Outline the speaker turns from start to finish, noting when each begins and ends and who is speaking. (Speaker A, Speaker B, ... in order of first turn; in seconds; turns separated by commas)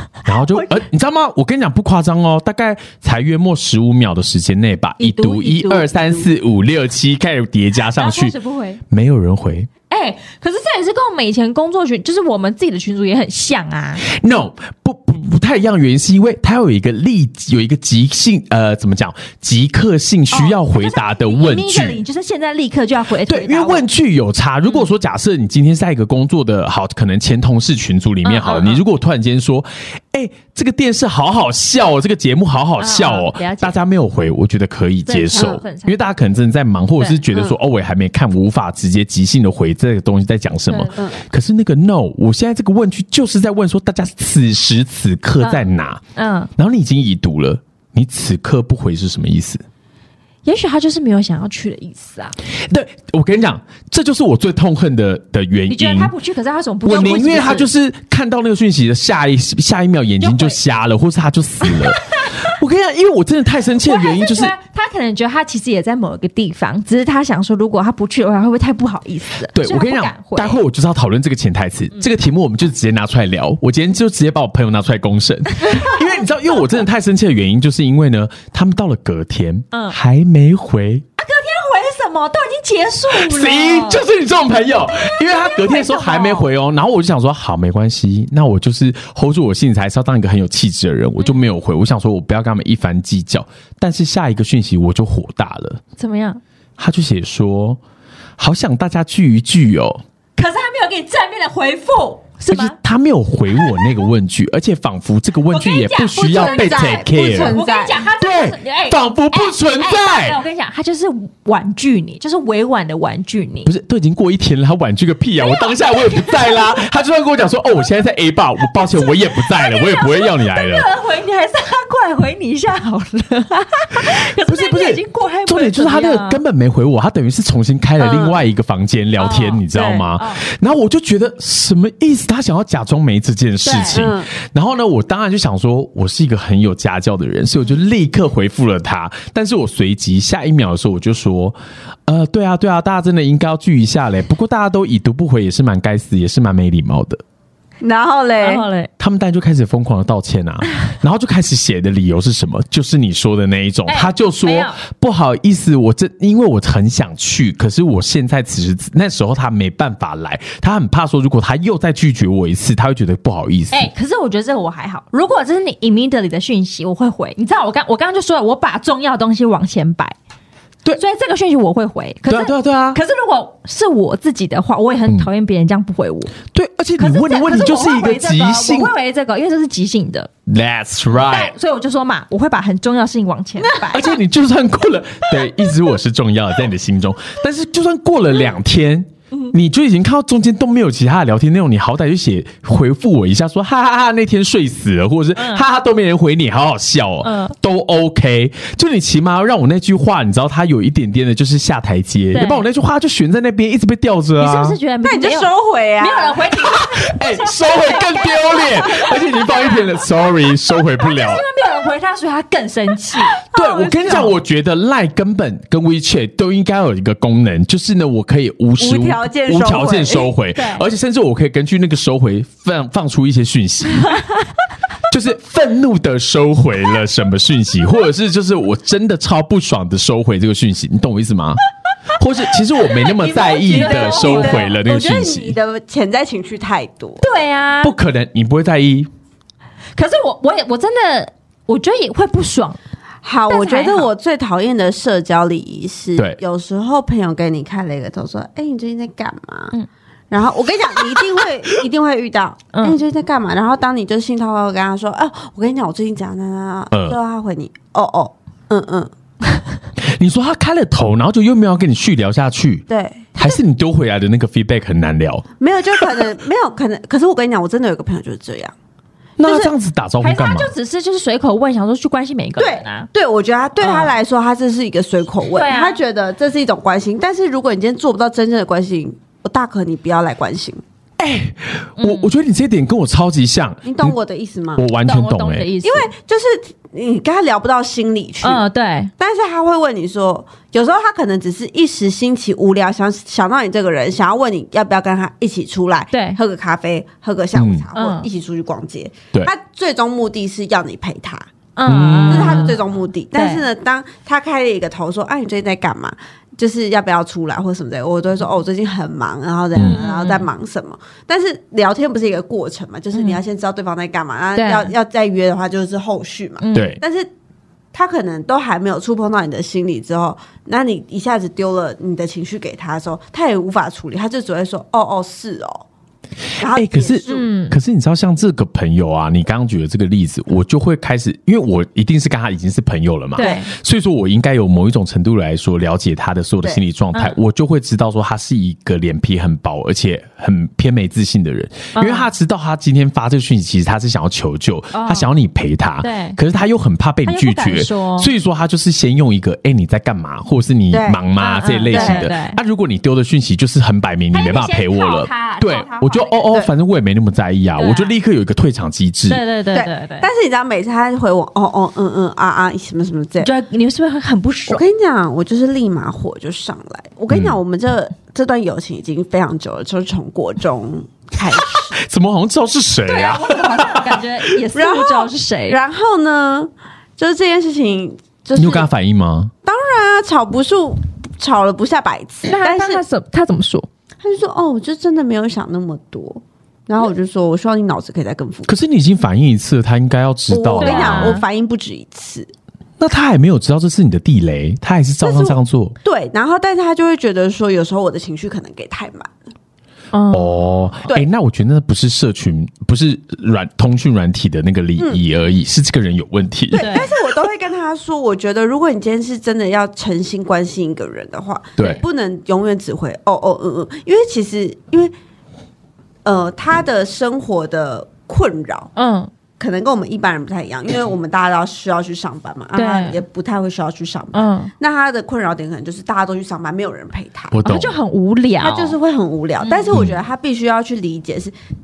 Speaker A: 0.3-8.3, Speaker B: 0.5-0.8, Speaker B: 5.0-5.9, Speaker C: 5.0-6.2, Speaker B: 8.0-8.8, Speaker A: 8.9-9.7, Speaker B: 9.9-14.0, Speaker A: 14.0-22.0, Speaker B: 20.3-23.9, Speaker A: 23.2-46.0, Speaker B: 28.2-28.8, Speaker B: 32.8-33.8, Speaker B: 35.1-36.0, Speaker B: 40.7-41.0, Speaker C: 41.0-41.2, Speaker B: 45.4-46.5, Speaker A: 46.6-49.6, Speaker B: 50.5-52.4, Speaker A: 52.6-56.1, Speaker B: 55.7-57.7, Speaker A: 56.9-64.5, Speaker B: 60.2-60.6, Speaker B: 61.6-62.3, Speaker B: 63.8-70.6, Speaker A: 69.5-81.0, Speaker B: 81.2-84.0, Speaker A: 83.1-95.8, Speaker B: 85.2-86.5, Speaker B: 96.0-96.4, Speaker A: 96.8-97.8, Speaker A: 98.4-100.0, Speaker B: 100.4-102.8, Speaker A: 102.5-107.6, Speaker B: 105.5-113.7, Speaker C: 106.2-108.0, Speaker A: 108.2-110.4, Speaker A: 113.7-120.9, Speaker B: 115.4-116.6, Speaker B: 118.8-126.4, Speaker A: 124.1-141.6, Speaker C: 128.0-128.4, Speaker B: 129.2-130.4, Speaker B: 133.7-134.1, Speaker C: 133.9-134.3, Speaker A: 142.1-147.2, Speaker C: 147.8-148.7, Speaker B: 148.4-148.9, Speaker A: 149.0-163.9, Speaker B: 153.9-154.8, Speaker B: 163.7-170.2, Speaker B: 171.0-176.3, Speaker A: 172.3-173.0, Speaker A: 176.5-178.9, Speaker B: 177.0-180.3, Speaker A: 180.5-181.5, Speaker B: 181.3-184.1, Speaker A: 183.9-204.8, Speaker B: 195.4-195.6, Speaker B: 197.2-197.6, Speaker B: 202.3-202.6, Speaker B: 204.4-210.0, Speaker C: 205.0-206.8, Speaker A: 207.1-211.4, Speaker B: 211.0-213.4, Speaker C: 213.5-214.3, Speaker A: 213.5-224.2, Speaker C: 218.8-220.3, Speaker B: 220.6-220.8, Speaker A: 225.1-231.6, Speaker A: 232.2-235.6, Speaker B: 232.8-234.8, Speaker C: 233.6-237.3, Speaker B: 237.2-237.9, Speaker A: 237.8-239.1, Speaker B: 240.0-242.8, Speaker C: 243.2-249.7, Speaker B: 243.5-244.1, Speaker C: 250.3-259.1, Speaker A: 256.9-257.2, Speaker A: 260.0-262.9, Speaker C: 262.9-263.6, Speaker A: 263.4-266.3, Speaker C: 265.6-268.7, Speaker A: 269.4-270.7, Speaker B: 269.4-273.1, Speaker C: 272.6-280.8, Speaker B: 273.8-274.1, Speaker B: 275.6-276.0, Speaker A: 281.2-284.2, Speaker B: 282.0-282.3, Speaker C: 283.8-284.8, Speaker A: 284.8-285.7, Speaker B: 285.1-286.1, Speaker C: 285.8-288.6, Speaker B: 288.4-289.1, Speaker C: 289.2-301.5, Speaker B: 296.1-296.4, Speaker A: 297.6-297.9, Speaker B: 297.9-298.3, Speaker B: 301.8-302.8, Speaker A: 301.9-302.7, Speaker C: 302.3-317.3, Speaker B: 303.3-303.6, Speaker A: 309.8-310.0, Speaker B: 309.8-310.5, Speaker B: 313.1-313.4, Speaker B: 314.6-314.9, Speaker B: 316.6-317.0, Speaker A: 316.7-317.0, Speaker C: 317.9-325.9, Speaker C: 326.6-327.5, Speaker A: 326.6-359.4, Speaker B: 327.3-327.8, Speaker B: 333.4-333.7, Speaker B: 341.9-342.3, Speaker B: 344.9-345.3, Speaker B: 346.0-346.4, Speaker B: 347.2-348.3, Speaker C: 350.9-351.2, Speaker B: 351.4-352.6, Speaker C: 351.9-352.3, Speaker B: 354.3-356.4, Speaker B: 357.8-358.2, Speaker B: 359.3-360.3, Speaker C: 359.7-363.5, Speaker B: 363.4-364.8, Speaker C: 364.7-372.0, Speaker A: 367.3-367.6, Speaker A: 371.8-374.2, Speaker B: 373.1-375.8, Speaker C: 374.8-378.9, Speaker A: 378.6-379.5, Speaker C: 379.6-383.0, Speaker B: 382.5-383.9, Speaker C: 384.2-388.7, Speaker A: 388.7-391.4, Speaker C: 390.5-392.5, Speaker B: 390.8-391.4, Speaker A: 393.0-396.0, Speaker C: 395.2-399.3, Speaker B: 400.1-400.6, Speaker A: 400.3-407.1, Speaker C: 406.7-415.1, Speaker B: 406.7-407.1, Speaker A: 411.8-412.0, Speaker C: 416.2-418.9, Speaker B: 419.0-419.3, Speaker C: 419.6-427.6, Speaker B: 422.8-423.2, Speaker B: 424.3-424.7, Speaker A: 427.5-428.0, Speaker B: 427.6-429.0, Speaker C: 428.6-431.5, Speaker B: 429.6-429.9, Speaker A: 429.9-430.2